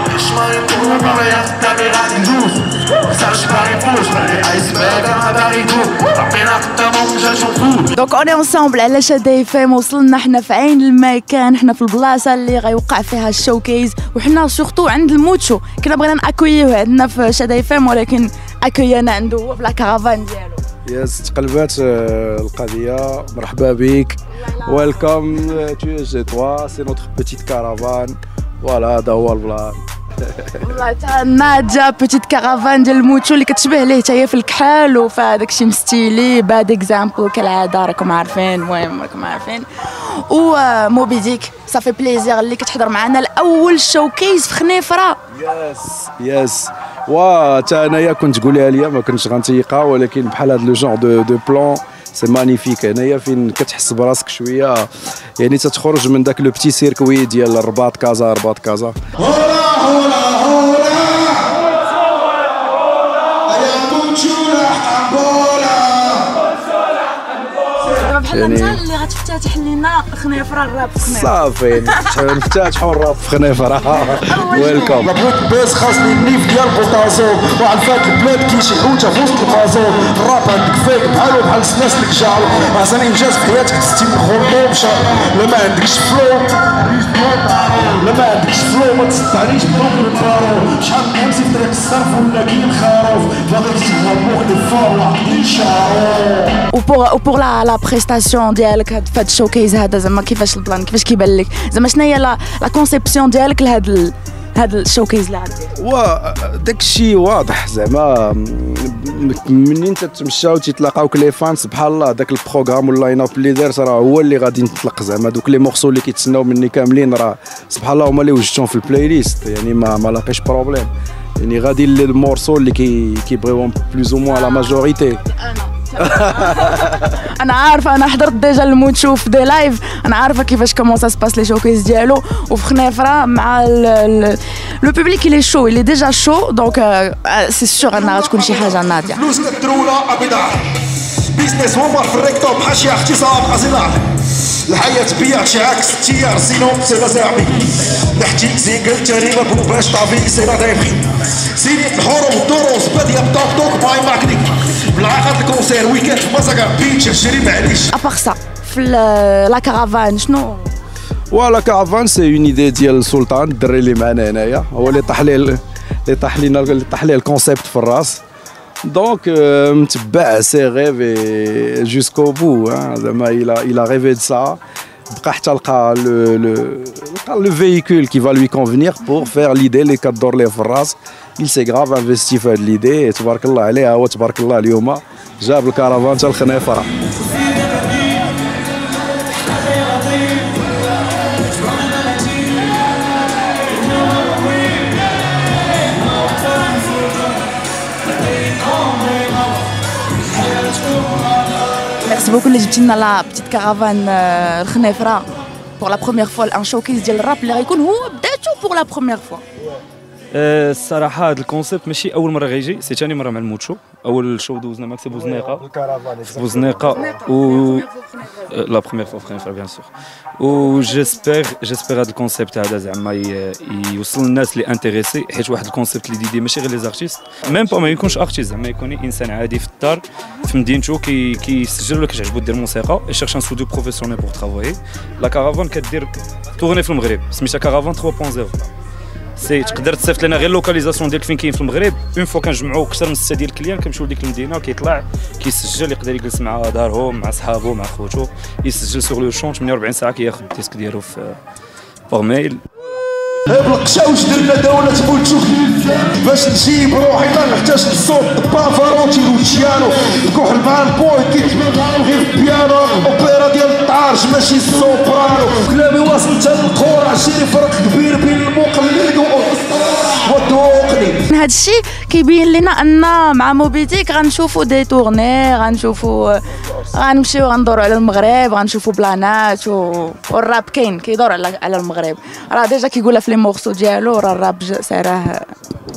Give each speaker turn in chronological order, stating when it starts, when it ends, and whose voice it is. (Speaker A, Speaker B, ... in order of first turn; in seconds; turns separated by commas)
Speaker A: 0.2-7.8, Speaker B: 7.9-20.6, Speaker C: 20.9-30.6, Speaker B: 30.6-45.2, Speaker C: 45.3-54.9, Speaker C: 55.4-59.0, Speaker A: 59.2-61.5, Speaker A: 63.5-66.3, Speaker B: 67.8-72.1, Speaker C: 68.3-68.8, Speaker C: 71.0-75.1, Speaker B: 74.2-75.0, Speaker A: 75.0-96.6, Speaker B: 96.7-105.7, Speaker C: 105.8-125.2, Speaker B: 124.3-139.2, Speaker C: 126.0-127.1, Speaker A: 138.2-140.6, Speaker A: 141.2-157.9, Speaker B: 157.9-160.8, Speaker C: 161.3-168.2, Speaker C: 168.8-174.6, Speaker C: 175.1-186.9, Speaker B: 202.0-205.3, Speaker B: 205.8-209.4, Speaker D: 210.3-215.6, Speaker C: 215.1-217.2, Speaker D: 216.2-217.8, Speaker B: 217.2-218.2, Speaker D: 218.4-219.9, Speaker D: 220.4-238.5, Speaker D: 239.4-251.4, Speaker D: 252.1-252.6, Speaker A: 253.5-271.2, Speaker B: 271.3-276.4, Speaker B: 276.9-285.5